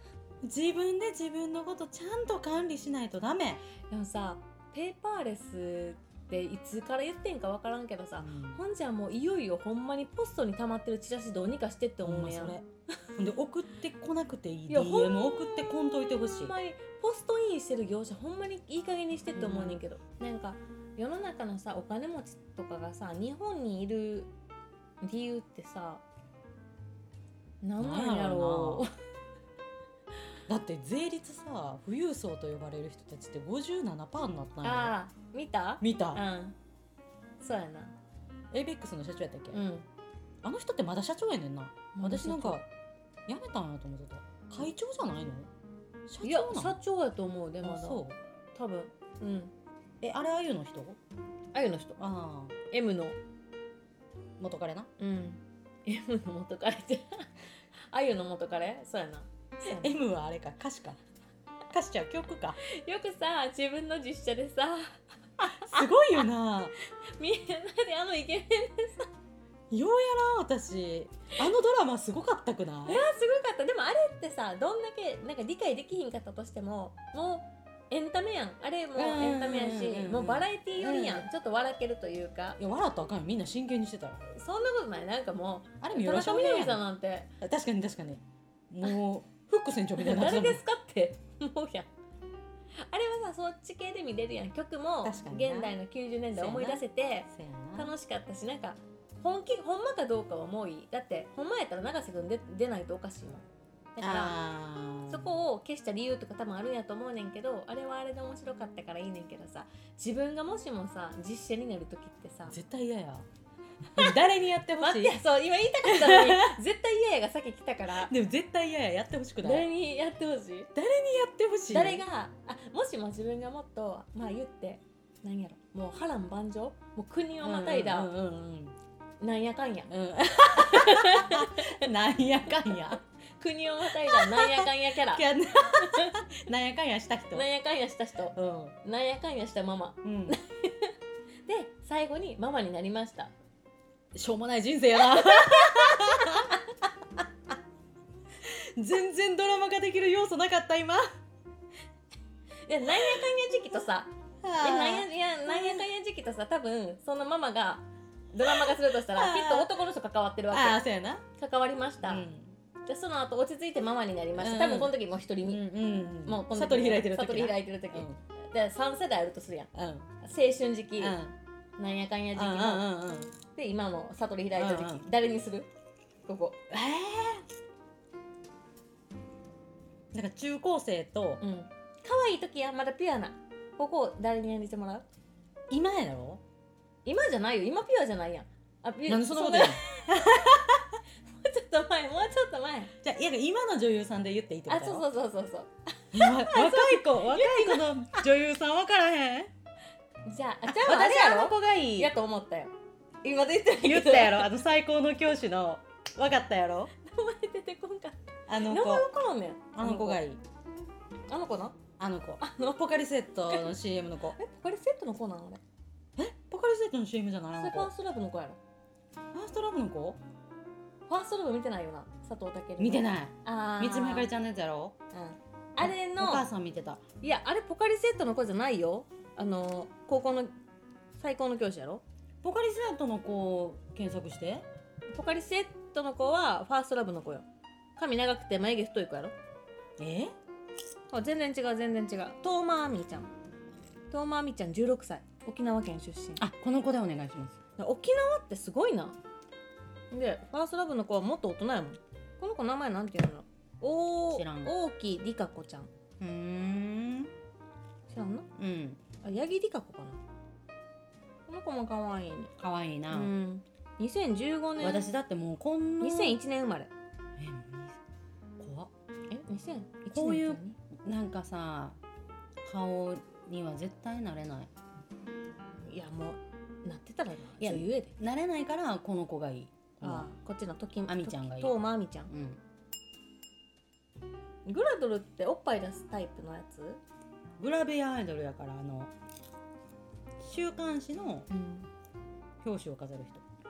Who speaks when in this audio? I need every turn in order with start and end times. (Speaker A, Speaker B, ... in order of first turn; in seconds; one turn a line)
Speaker A: 0.4-3.6
Speaker B: 3.9-12.6
Speaker A: 8.2-8.6
Speaker A: 12.0-16.5
Speaker B: 14.7-24.3
Speaker A: 19.3-19.8
Speaker B: 25.0-26.0
Speaker B: 27.6-28.9
Speaker A: 27.8-28.9
Speaker A: 30.4-34.9
Speaker B: 34.6-36.5
Speaker A: 35.8-36.2
Speaker B: 37.4-37.9
Speaker A: 38.5-39.6
Speaker B: 39.5-39.9
Speaker A: 40.4-42.7
Speaker B: 41.9-42.6
Speaker A: 43.3-45.5
Speaker A: 46.1-46.8
Speaker B: 46.2-48.0
Speaker A: 47.6-48.2
Speaker B: 48.5-49.5
Speaker A: 50.0-51.0
Speaker B: 51.5-52.0
Speaker A: 52.0-52.5
Speaker B: 52.7-53.2
Speaker A: 54.4-54.9
Speaker B: 55.0-59.9
Speaker A: 59.6-61.0
Speaker A: 61.7-62.6
Speaker B: 62.6-66.2
Speaker A: 65.5-66.7
Speaker B: 66.9-69.1
Speaker A: 69.7-73.0
Speaker B: 72.8-82.6
Speaker A: 78.9-81.3
Speaker A: 82.6-84.3
Speaker B: 84.3-87.3
Speaker A: 85.8-86.8
Speaker A: 87.4-90.6
Speaker B: 90.0-91.9
Speaker B: 92.7-103.4
Speaker A: 95.0-95.8
Speaker A: 96.3-97.9
Speaker B: 104.0-104.3
Speaker A: 104.0-105.3
Speaker B: 105.1-112.5
Speaker A: 112.5-113.3
Speaker A: 113.9-115.2
Speaker B: 114.8-118.1
Speaker A: 115.8-116.6
Speaker A: 117.9-119.7
Speaker B: 119.4-120.7
Speaker A: 120.7-122.0
Speaker B: 121.7-128.1
Speaker A: 127.4-128.8
Speaker B: 129.2-131.9
Speaker A: 129.9-133.0
Speaker B: 133.4-136.3
Speaker A: 134.0-137.5
Speaker B: 137.3-143.3
Speaker A: 138.3-138.8
Speaker A: 140.0-140.3
Speaker A: 144.1-146.6
Speaker B: 145.1-146.6
Speaker A: 148.4-151.0
Speaker B: 152.7-160.8
Speaker A: 152.9-153.2
Speaker A: 154.4-155.8
Speaker A: 158.4-159.7
Speaker A: 160.5-161.2
Speaker B: 161.3-162.3
Speaker A: 162.0-162.6
Speaker B: 162.8-165.6
Speaker A: 164.3-164.9
Speaker A: 165.4-168.2
Speaker B: 166.2-171.2
Speaker A: 169.7-170.1
Speaker A: 171.0-171.3
Speaker B: 171.8-172.9
Speaker A: 172.3-173.3
Speaker B: 173.5-175.7
Speaker A: 174.5-175.0
Speaker B: 176.3-176.6
Speaker A: 176.7-177.4
Speaker A: 180.1-181.4
Speaker B: 181.4-185.1
Speaker A: 185.7-186.4
Speaker B: 187.0-190.8
Speaker A: 189.1-190.9
Speaker B: 191.3-192.9
Speaker A: 193.0-195.1
Speaker B: 194.7-197.9
Speaker A: 196.1-199.5
Speaker B: 200.2-204.6
Speaker A: 200.7-202.1
Speaker A: 203.8-206.9
Speaker B: 207.0-210.2
Speaker A: 208.5-209.1
Speaker A: 209.7-210.4
Speaker B: 211.3-211.8
Speaker A: 212.0-214.4
Speaker B: 212.4-212.8
Speaker B: 213.5-213.8
Speaker B: 214.3-215.6
Speaker A: 216.2-217.9
Speaker B: 217.6-218.6
Speaker A: 219.3-220.2
Speaker B: 221.1-224.3
Speaker A: 222.8-224.9
Speaker B: 225.1-226.5
Speaker A: 225.8-227.0
Speaker B: 227.2-230.5
Speaker B: 231.2-232.0
Speaker A: 232.4-234.6
Speaker B: 235.1-237.4
Speaker B: 237.9-239.3
Speaker A: 240.0-240.3
Speaker B: 241.1-243.3
Speaker B: 244.1-246.4
Speaker A: 246.4-247.6
Speaker B: 247.8-249.2
Speaker B: 250.1-255.9
Speaker A: 254.3-254.7
Speaker A: 256.2-257.3
Speaker B: 258.1-258.5
Speaker A: 258.6-259.0
Speaker B: 259.2-260.2
Speaker B: 261.5-262.5
Speaker A: 262.6-263.3
Speaker B: 263.1-265.1
Speaker A: 264.8-266.4
Speaker B: 266.0-266.9
Speaker A: 267.4-268.0
Speaker A: 268.6-268.9
Speaker B: 269.3-270.8
Speaker A: 270.1-272.0
Speaker A: 272.6-274.7
Speaker B: 275.8-278.1
Speaker A: 277.6-280.3
Speaker B: 280.0-282.3
Speaker A: 281.1-281.7
Speaker A: 282.3-282.6
Speaker B: 284.6-287.0
Speaker A: 287.6-289.1
Speaker A: 290.4-291.5
Speaker B: 291.5-291.9
Speaker A: 292.6-293.4